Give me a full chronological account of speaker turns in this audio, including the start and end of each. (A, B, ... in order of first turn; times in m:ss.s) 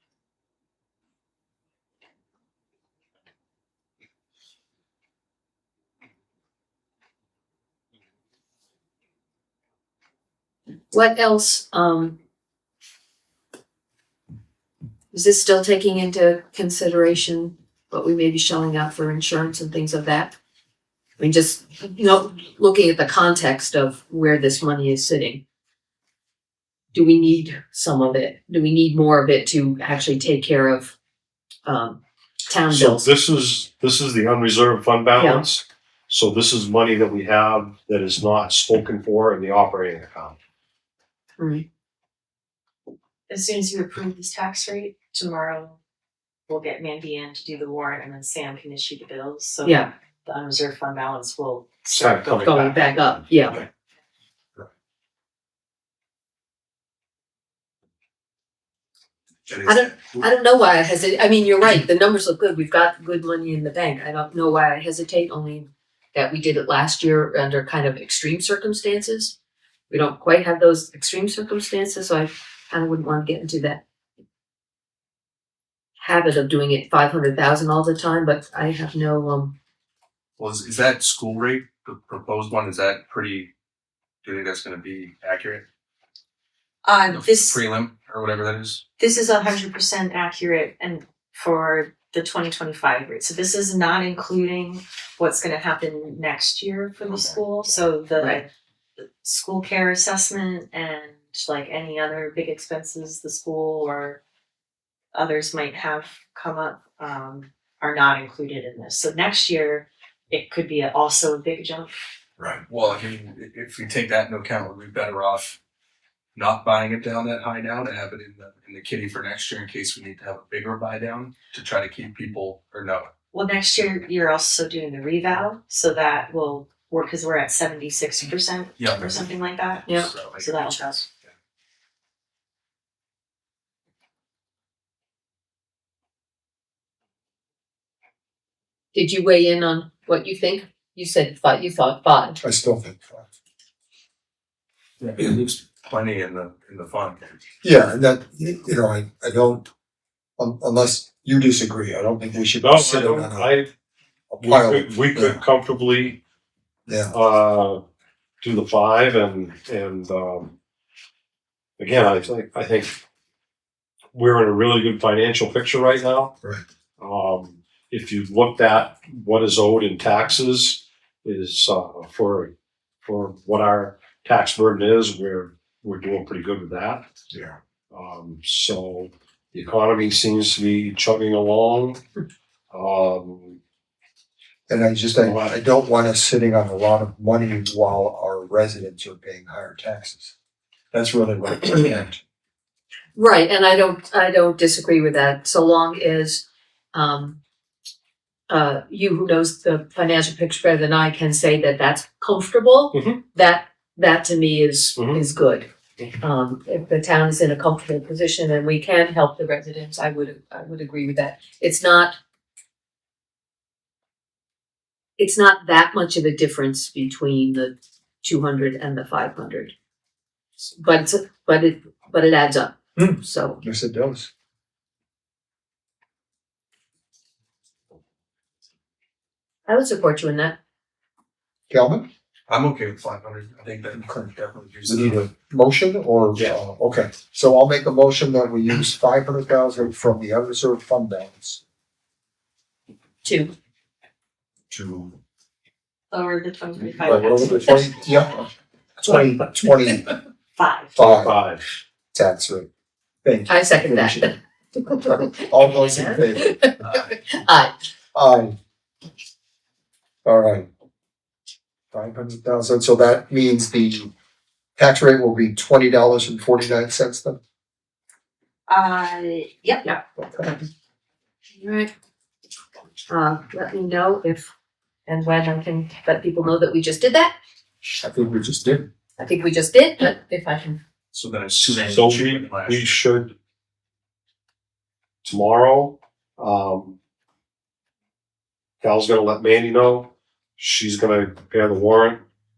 0:10.9-0:12.2 A
0:15.1-0:20.3 A
0:21.2-0:25.4 A
0:26.9-0:30.9 A
0:31.6-0:33.0 A
0:32.7-0:40.4 B
0:35.2-0:35.4 A
0:41.4-0:41.6 A
0:43.3-0:45.8 C
0:46.5-0:52.9 C
0:49.6-0:49.9 A
0:51.9-0:52.8 B
0:52.4-0:53.6 A
0:59.6-1:09.4 A
1:09.9-1:13.8 A
1:16.0-1:19.5 A
1:20.4-1:23.5 D
1:24.2-1:25.6 D
1:26.8-1:27.6 C
1:27.1-1:28.8 D
1:29.0-1:38.5 C
1:39.2-1:44.2 C
1:45.1-1:51.9 C
1:52.6-1:55.6 D
1:56.3-2:03.1 D
2:03.3-2:11.1 C
2:08.8-2:09.1 D
2:09.9-2:10.8 D
2:18.9-2:22.4 A
2:22.4-2:23.3 E
2:25.0-2:27.2 D
2:27.6-2:29.7 E
2:30.4-2:33.5 E
2:32.6-2:33.7 B
2:34.3-2:35.4 E
2:34.4-2:36.2 B
2:36.9-2:37.1 E
2:37.1-2:37.8 B
2:38.4-2:40.5 B
2:41.8-2:43.0 B
2:44.1-2:46.4 B
2:47.0-2:57.1 B
2:57.3-2:57.6 E
2:57.9-3:02.0 B
3:02.7-3:03.6 B
3:04.7-3:10.3 E
3:05.2-3:05.5 B
3:10.9-3:12.2 E
3:13.1-3:17.4 A
3:18.5-3:25.7 A
3:22.9-3:23.2 B
3:25.0-3:25.2 B
3:26.2-3:32.2 A
3:35.2-3:39.7 A
3:40.8-3:43.6 A
3:43.0-3:44.3 E
3:49.7-3:50.6 A
3:51.7-3:52.0 E
3:52.5-3:55.2 D
3:54.0-3:54.3 E
3:54.8-4:01.6 E
4:03.2-4:03.5 A
4:04.7-4:05.1 E
4:06.1-4:07.8 C
4:07.0-4:08.5 E
4:09.0-4:10.1 E
4:10.6-4:10.9 C
4:11.0-4:11.3 E
4:11.0-4:11.8 B
4:12.1-4:12.7 E
4:13.2-4:14.3 E
4:13.5-4:17.7 A
4:15.0-4:16.6 E
4:18.1-4:18.5 E
4:20.2-4:20.7 E
4:21.9-4:24.1 E
4:24.8-4:27.4 E
4:28.7-4:29.9 C
4:29.8-4:30.5 A
4:31.6-4:31.9 A
4:33.1-4:34.5 A
4:35.0-4:37.3 A
4:37.9-4:38.9 E
4:39.2-4:40.8 A
4:41.1-4:43.0 D
4:41.7-4:43.3 B
4:45.2-4:47.0 B
4:48.8-4:52.2 B